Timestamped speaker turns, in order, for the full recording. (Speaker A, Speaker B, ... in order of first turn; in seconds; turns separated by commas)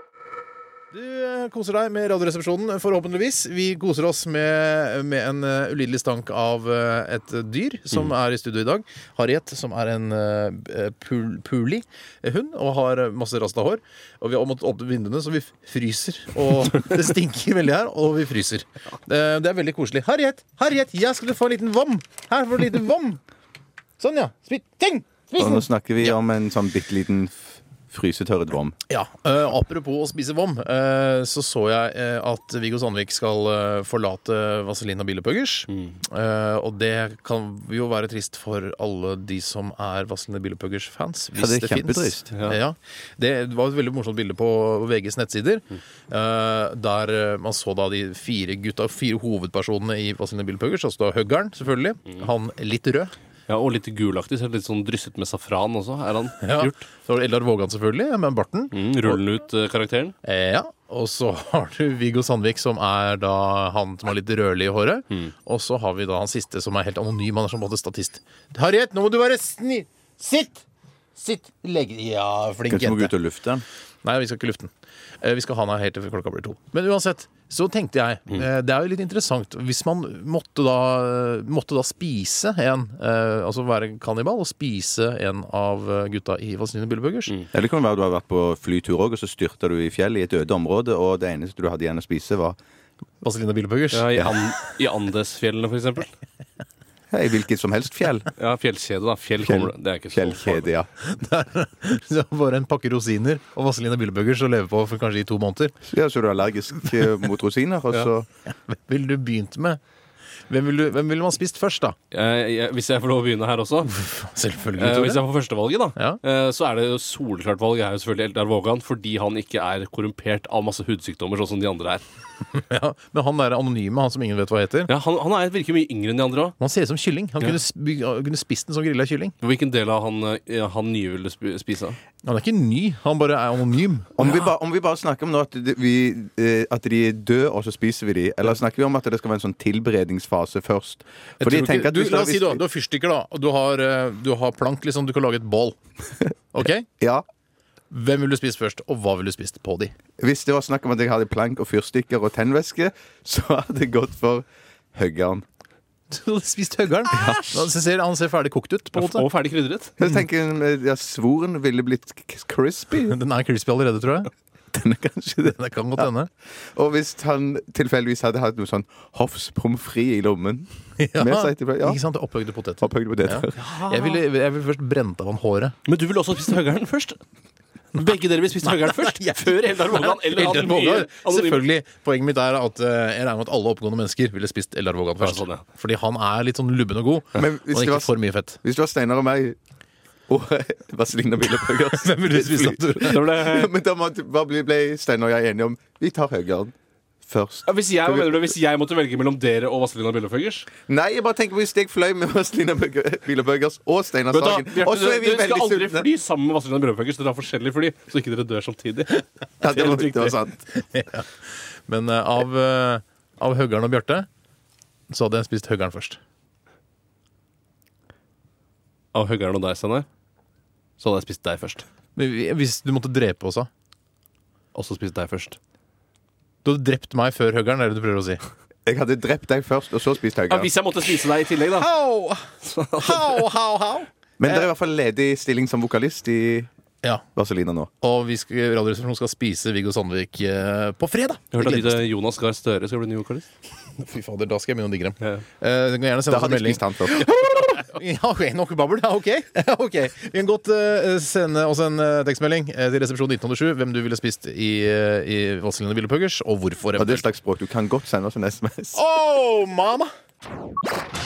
Speaker A: 0.9-23.2, Speaker A: 24.0-26.1, Speaker B: 25.4-27.3, Speaker B: 27.9-28.8, Speaker A: 28.9-53.1, Speaker B: 41.4-42.3, Speaker C: 53.5-56.8, Speaker A: 56.4-59.1, Speaker C: 58.7-60.1, Speaker A: 60.2-73.1, Speaker B: 72.7-73.6, Speaker A: 74.0-87.4, Speaker B: 87.5-92.6, Speaker A: 93.2-94.2, Speaker C: 93.9-96.1, Speaker B: 97.1-98.3, Speaker C: 98.4-100.6, Speaker B: 99.4-100.9, Speaker A: 101.0-105.8, Speaker B: 105.9-108.3, Speaker A: 107.9-109.8, Speaker A: 110.5-112.0, Speaker C: 112.1-113.9, Speaker A: 113.9-115.2, Speaker C: 114.8-122.0, Speaker A: 122.5-124.9, Speaker C: 124.9-126.5, Speaker A: 126.6-129.3, Speaker C: 129.4-132.0, Speaker A: 132.2-134.4, Speaker B: 134.2-142.6, Speaker A: 141.4-145.8, Speaker A: 146.5-146.9, Speaker A: 147.9-149.9, Speaker B: 150.2-155.4, Speaker A: 156.1-159.3, Speaker B: 157.1-157.7, Speaker C: 158.9-159.9, Speaker B: 160.0-163.2, Speaker A: 163.0-164.3, Speaker B: 164.7-166.1, Speaker A: 165.4-166.3, Speaker B: 166.7-172.0, Speaker A: 171.0-175.8, Speaker B: 172.8-173.8, Speaker C: 175.9-177.2, Speaker C: 177.9-181.7, Speaker A: 178.7-188.6, Speaker C: 185.2-185.6, Speaker B: 187.4-189.6, Speaker B: 190.3-196.7, Speaker A: 192.0-193.3, Speaker C: 193.0-193.7, Speaker B: 197.3-198.3, Speaker C: 197.7-200.7, Speaker B: 200.9-206.1, Speaker C: 204.3-210.1, Speaker B: 209.6-210.7, Speaker A: 210.7-211.3, Speaker A: 211.9-214.3, Speaker A: 215.1-216.2, Speaker C: 219.1-220.1, Speaker C: 221.0-221.8, Speaker A: 222.2-223.7, Speaker C: 224.7-225.6, Speaker A: 226.6-228.4, Speaker B: 228.9-230.7, Speaker C: 230.5-231.9, Speaker A: 231.8-234.7, Speaker C: 232.7-233.4, Speaker B: 234.4-236.7, Speaker B: 237.4-237.9, Speaker A: 238.0-242.0, Speaker C: 241.5-243.5, Speaker A: 243.9-257.2, Speaker B: 246.3-247.3, Speaker B: 257.0-259.0, Speaker A: 258.9-260.1